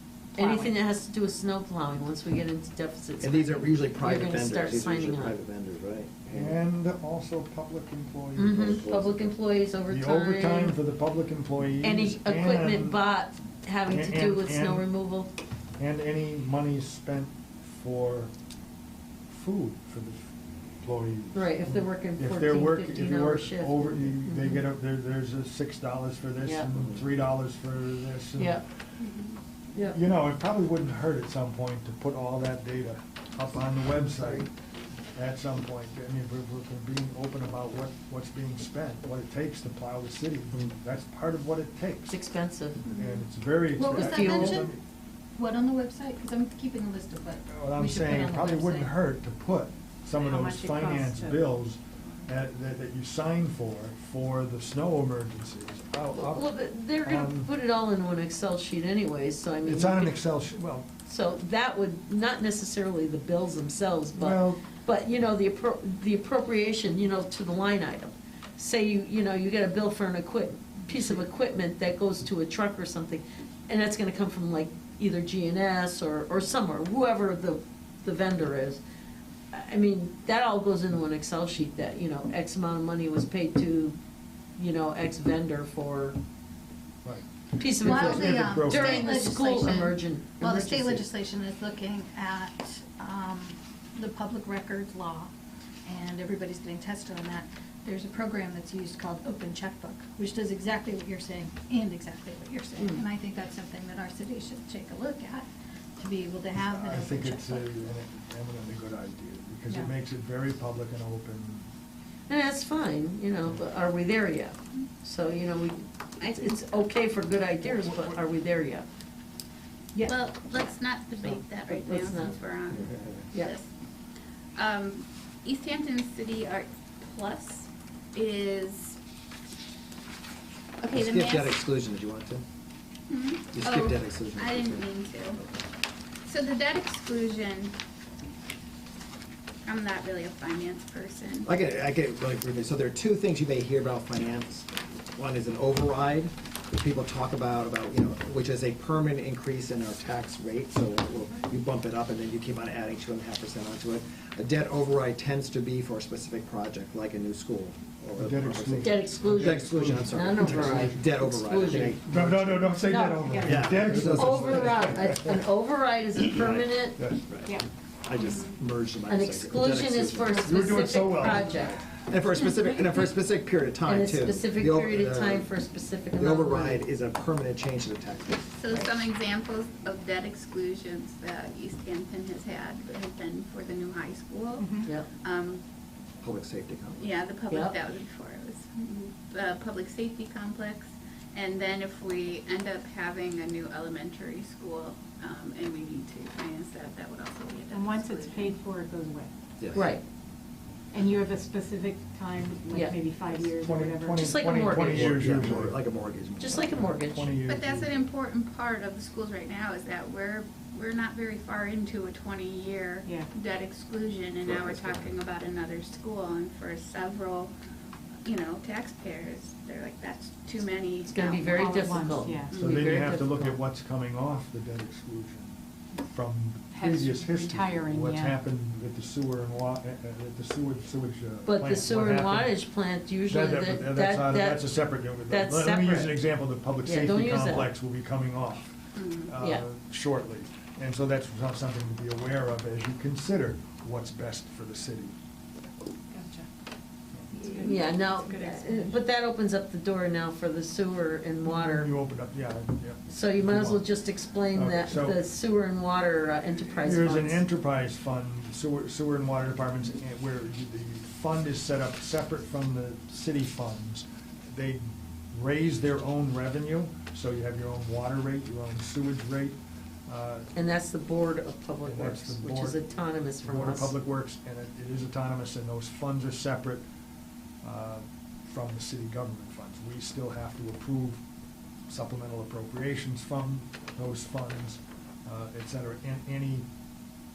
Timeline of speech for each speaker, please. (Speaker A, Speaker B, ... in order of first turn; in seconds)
Speaker A: 0.3-0.8, 50.1-51.5, 163.3-163.5, 184.6-184.9, 197.7-199.3, 200.9-204.7, 213.0-213.3, 221.5-222.5, 226.7-228.4, 246.1-246.5, 247.4-249.0
Speaker B: 0.3-5.3, 8.4-10.8, 11.8-15.3, 21.3-24.6, 26.4-26.7, 28.4-28.6, 29.7-30.0, 34.2-34.4, 42.1-42.8, 43.9-44.7, 56.1-60.1, 61.0-78.8, 79.5-84.0, 84.6-86.2, 87.5-91.0, 112.3-118.9, 121.2-122.4, 158.8-162.0, 162.8-167.0, 169.1-171.8, 173.8-176.8, 187.5-187.8, 199.7-200.0, 204.2-205.2, 206.4-207.3, 221.1-223.6, 231.4-234.7, 235.3-236.2, 236.8-237.7, 247.3-251.9, 253.1-257.4, 270.5-273.9
Speaker C: 3.2-6.6, 8.6-9.3, 122.7-123.0, 130.9-132.4, 133.5-134.9, 141.4-162.8, 163.4-165.1, 166.3-166.7, 167.2-170.4, 172.1-175.5, 176.2-178.5, 186.2-187.2, 199.6-199.9, 204.7-206.7, 214.4-215.2
Speaker D: 6.3-9.0, 9.9-13.0, 13.9-14.9, 15.8-18.3, 19.3-20.2, 20.8-28.6, 29.9-34.5, 35.1-42.2, 42.8-44.8, 47.5-57.5, 59.6-60.9, 64.1-64.6, 87.8-89.1, 106.5-111.7, 117.6-118.2, 158.2-161.1, 161.9-165.4, 166.9-167.2, 170.3-171.7, 203.6-205.8, 206.7-208.0, 222.5-232.6, 233.2-245.1, 251.6-253.9, 254.5-255.2, 256.8-270.5, 271.9-272.8, 273.4-276.8, 277.6-281.2, 281.9-286.6
Speaker E: 29.0-29.4, 120.0-123.7, 124.5-129.0, 130.8-131.6, 133.1-135.4, 136.2-137.7, 139.7-141.5, 168.2-168.6, 178.6-185.6, 187.0-198.5, 207.5-217.5, 218.2-222.8, 238.9-239.3
Speaker F: 43.7-44.7, 45.4-48.9, 87.8-95.3, 95.8-105.5, 106.0-107.7